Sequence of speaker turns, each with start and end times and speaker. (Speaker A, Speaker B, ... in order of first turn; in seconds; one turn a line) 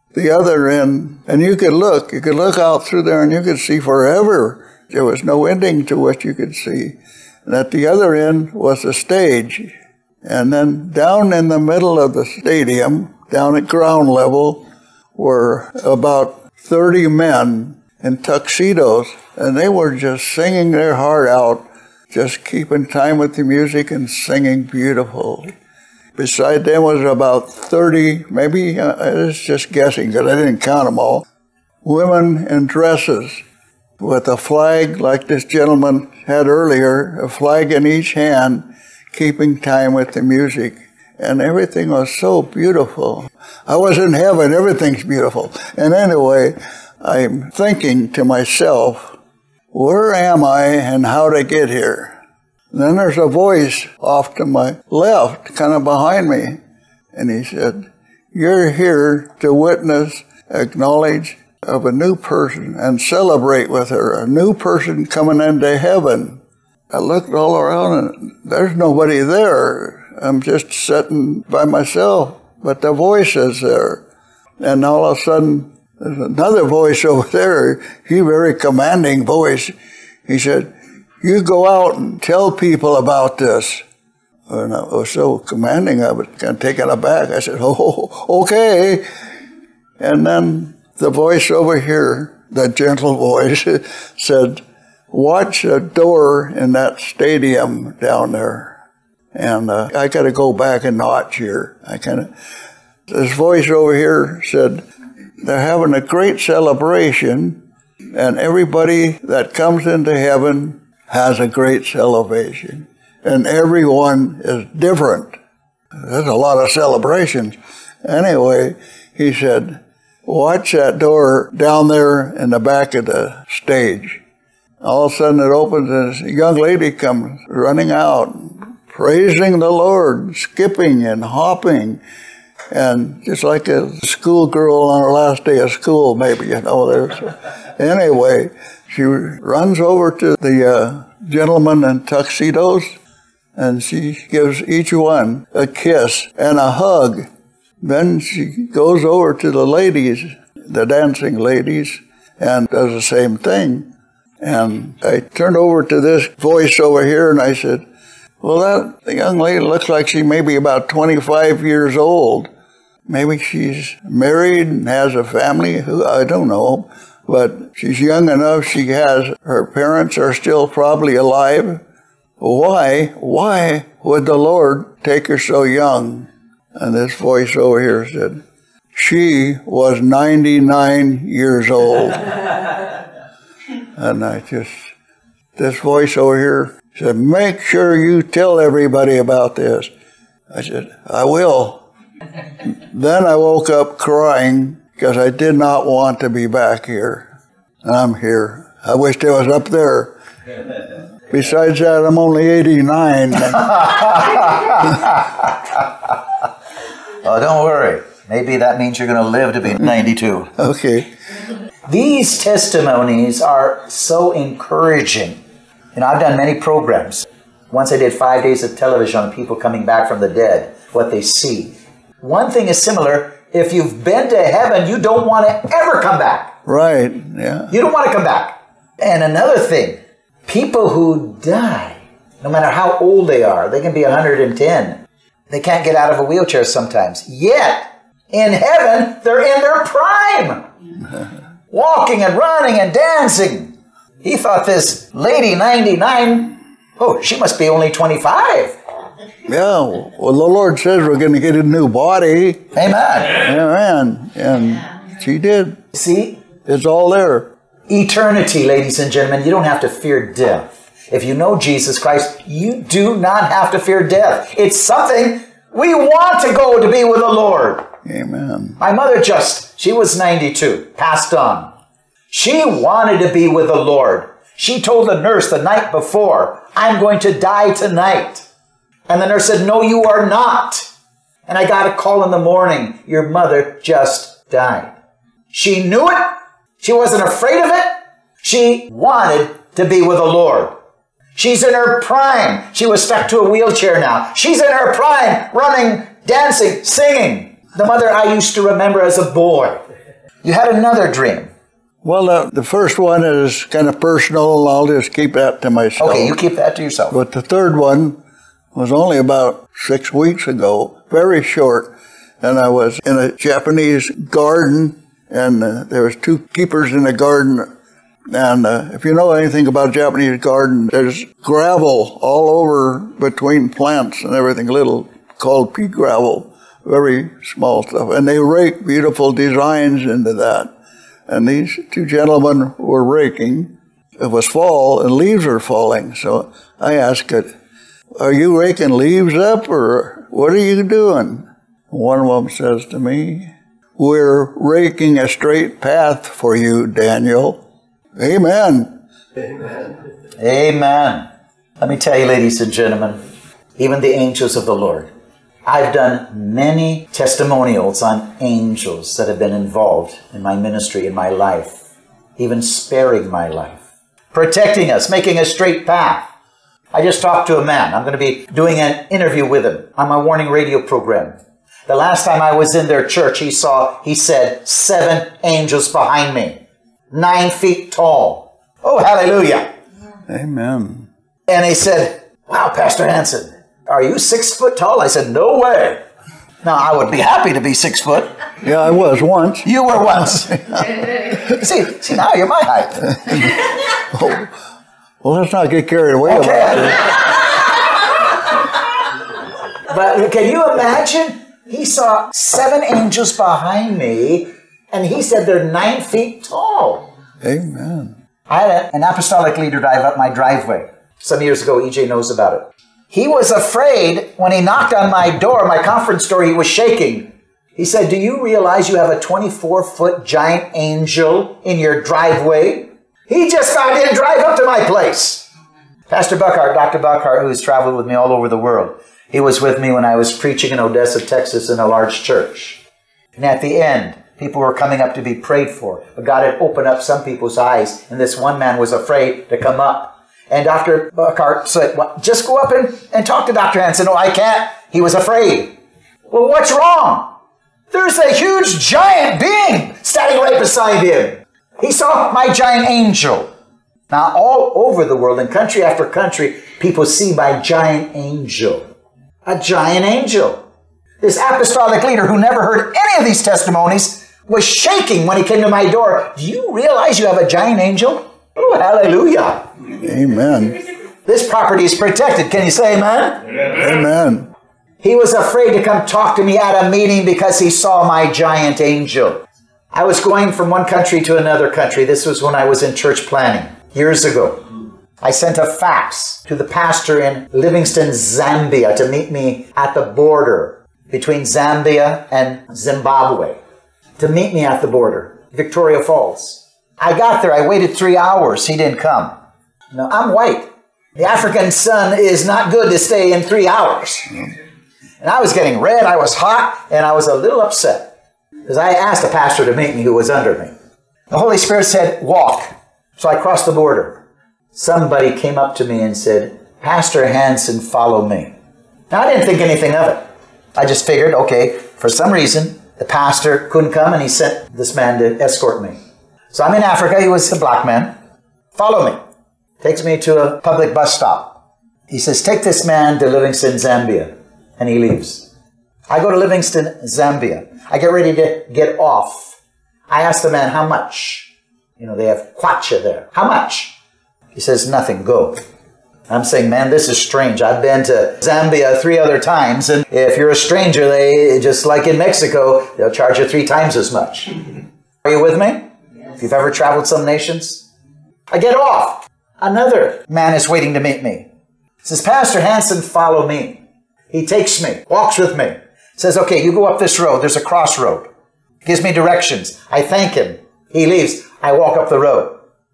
Speaker A: 0.1-9.7
Speaker A: 10.2-25.5
Speaker A: 26.2-31.2
Speaker A: 31.8-33.4
Speaker A: 34.0-49.1
Speaker A: 49.7-52.1
Speaker A: 52.7-56.6
Speaker A: 57.1-66.4
Speaker A: 66.9-74.0
Speaker A: 74.6-79.7
Speaker A: 80.3-83.8
Speaker A: 84.5-89.0
Speaker A: 90.0-98.8
Speaker A: 99.3-102.3
Speaker A: 103.1-104.8
Speaker A: 105.4-107.6
Speaker A: 108.1-115.4
Speaker A: 116.0-124.2
Speaker A: 124.8-132.0
Speaker A: 132.7-142.9
Speaker A: 143.6-147.3
Speaker A: 147.8-153.9
Speaker A: 154.4-157.8
Speaker A: 158.4-162.5
Speaker A: 163.1-171.8
Speaker A: 172.4-178.4
Speaker A: 178.9-182.3
Speaker A: 184.0-184.8
Speaker A: 185.6-189.9
Speaker A: 190.5-191.8
Speaker A: 192.9-197.3
Speaker A: 197.8-200.1
Speaker A: 201.3-203.9
Speaker B: 203.5-206.2
Speaker B: 207.2-210.5
Speaker A: 210.6-211.1
Speaker B: 211.9-215.4
Speaker B: 215.9-226.5
Speaker A: 226.7-227.7
Speaker B: 227.7-240.7
Speaker B: 241.7-248.8
Speaker A: 249.5-252.7
Speaker B: 252.7-253.4
Speaker A: 253.3-255.8
Speaker B: 255.9-256.4
Speaker A: 256.6-257.5
Speaker B: 257.9-267.9
Speaker A: 268.0-268.8
Speaker B: 268.8-271.7
Speaker B: 272.3-278.4
Speaker B: 279.1-280.9
Speaker B: 281.5-284.9
Speaker B: 285.5-287.9
Speaker B: 288.4-290.7
Speaker B: 291.4-299.8
Speaker B: 300.4-301.5
Speaker A: 302.0-306.4
Speaker B: 306.0-307.2
Speaker A: 307.1-308.2
Speaker A: 308.7-317.7
Speaker A: 318.3-330.7
Speaker A: 331.3-337.5
Speaker A: 338.2-347.6
Speaker A: 348.2-349.0
Speaker B: 350.4-351.3
Speaker B: 351.8-353.2
Speaker B: 353.8-355.1
Speaker B: 355.6-361.8
Speaker B: 362.4-363.8
Speaker B: 364.3-366.3
Speaker B: 366.9-376.6
Speaker B: 377.1-379.7
Speaker A: 380.3-381.1
Speaker B: 381.5-386.0
Speaker B: 386.6-388.3
Speaker A: 388.6-389.7
Speaker B: 389.6-393.1
Speaker A: 394.1-394.5
Speaker A: 395.2-397.1
Speaker B: 396.2-397.2
Speaker B: 399.9-407.1
Speaker A: 407.4-408.1
Speaker B: 408.5-425.5
Speaker B: 426.1-432.8
Speaker B: 433.4-445.8
Speaker B: 446.3-447.3
Speaker B: 447.9-453.5
Speaker B: 454.1-458.8
Speaker B: 459.4-460.6
Speaker B: 461.2-469.7
Speaker A: 469.9-470.8
Speaker B: 471.3-473.6
Speaker A: 473.7-474.5
Speaker B: 475.0-484.6
Speaker B: 485.2-493.6
Speaker B: 494.2-499.4
Speaker B: 499.9-504.5
Speaker B: 505.2-508.1
Speaker B: 508.7-510.7
Speaker B: 511.3-514.2
Speaker B: 514.7-518.5
Speaker B: 519.1-526.0
Speaker B: 526.5-528.1
Speaker B: 528.8-529.2
Speaker B: 529.8-535.5
Speaker B: 536.1-539.6
Speaker B: 540.1-544.0
Speaker B: 544.5-545.6
Speaker B: 546.3-554.6
Speaker B: 555.2-557.9
Speaker B: 558.5-561.5
Speaker B: 562.0-568.3
Speaker B: 568.8-572.6